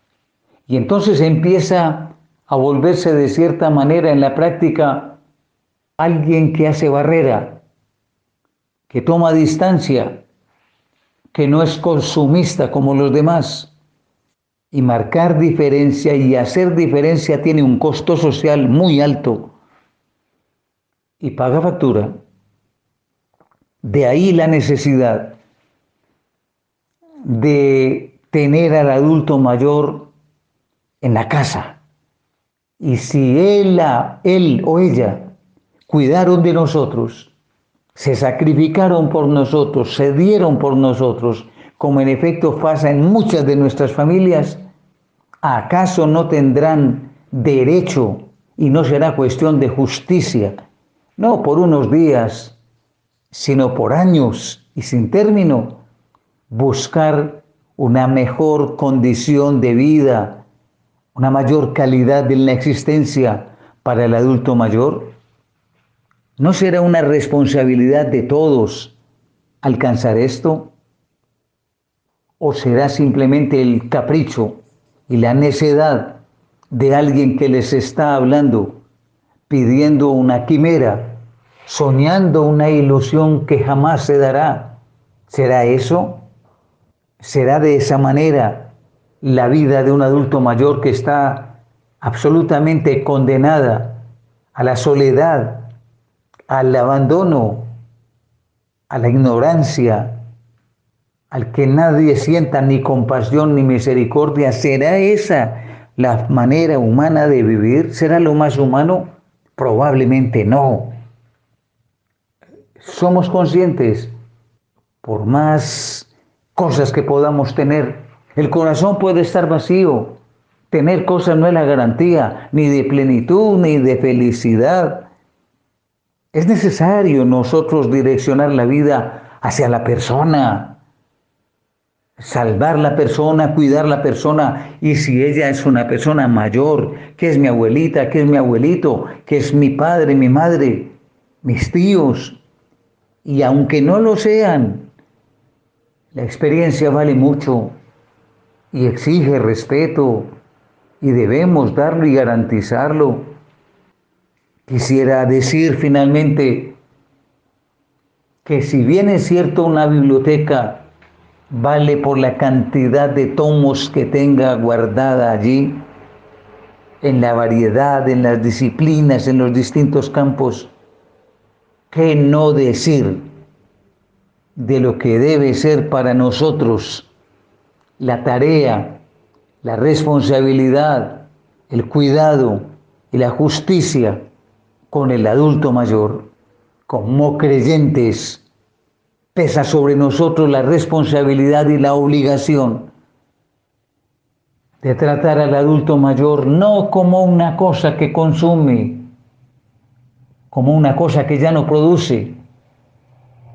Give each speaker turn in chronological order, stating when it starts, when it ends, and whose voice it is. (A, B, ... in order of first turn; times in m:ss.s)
0:00.7-0:05.2 A
0:06.0-0:07.6 A
0:08.9-0:10.2 A
0:11.3-0:13.7 A
0:14.7-0:19.5 A
0:21.2-0:22.2 A
0:23.8-0:25.4 A
0:27.2-0:30.1 A
0:31.0-0:31.8 A
0:32.8-0:35.3 A
0:35.9-0:37.3 A
0:38.0-0:44.6 A
0:45.4-0:50.6 A
0:51.2-0:52.6 A
0:53.3-0:55.8 A
0:56.5-1:00.4 A
1:01.1-1:05.1 A
1:06.4-1:08.9 A
1:09.6-1:10.7 A
1:12.4-1:16.2 A
1:16.7-1:18.8 A
1:19.5-1:26.2 A
1:27.2-1:35.7 A
1:36.5-1:37.7 A
1:38.9-1:40.2 A
1:41.3-1:51.0 A
1:52.8-1:54.1 A
1:55.0-2:00.2 A
2:00.7-2:05.1 A
2:06.3-2:10.8 A
2:12.2-2:22.4 A
2:23.2-2:24.9 A
2:26.1-2:27.8 A
2:28.7-2:30.3 A
2:31.0-2:33.4 A
2:34.7-2:36.8 A
2:38.4-2:40.9 A
2:41.5-2:45.9 A
2:47.0-2:50.7 A
2:51.9-2:53.3 A
2:54.6-2:57.1 A
2:58.0-2:59.0 A
2:59.6-3:04.2 A
3:04.9-3:06.3 A
3:06.9-3:08.4 A
3:09.3-3:12.9 A
3:14.8-3:19.1 A
3:20.5-3:22.4 A